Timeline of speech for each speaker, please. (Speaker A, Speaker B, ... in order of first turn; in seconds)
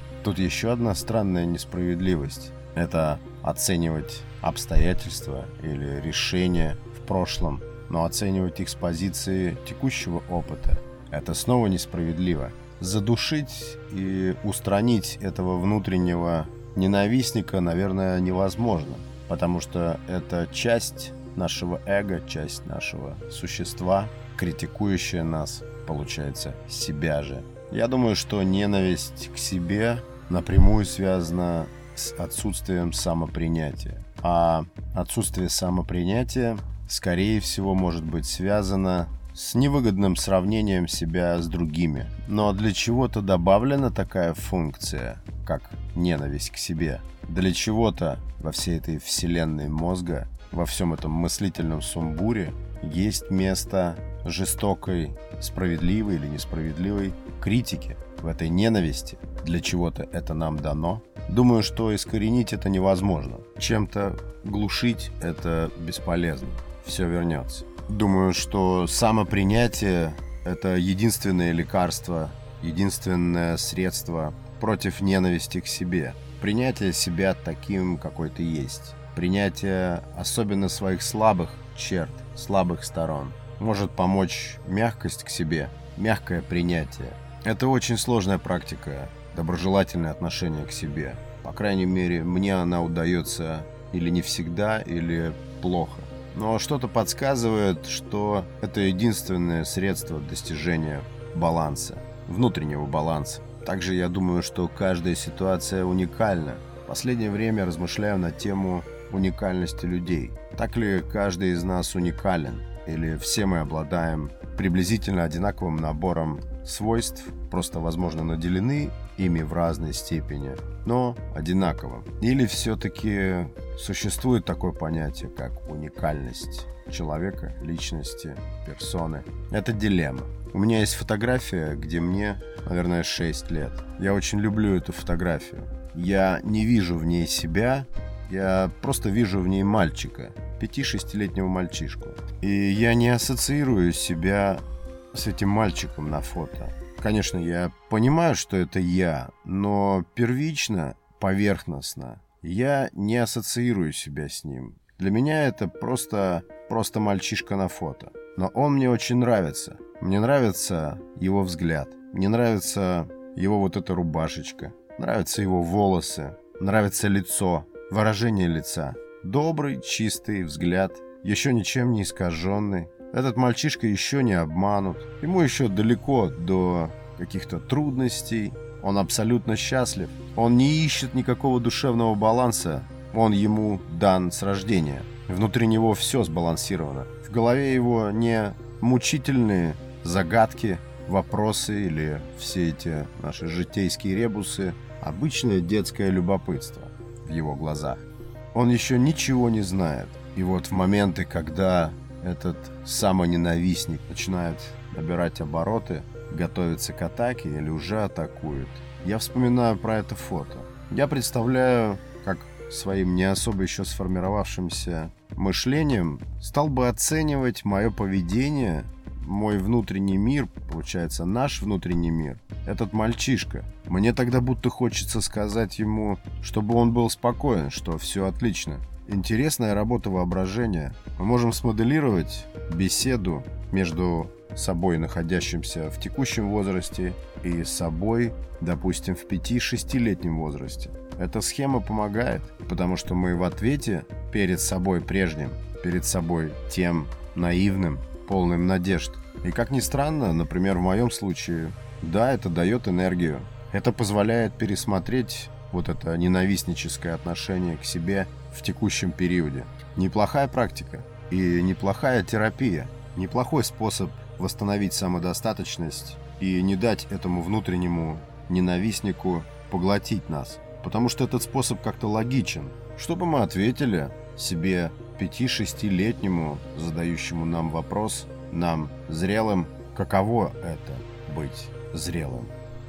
Speaker A: 0.2-282.5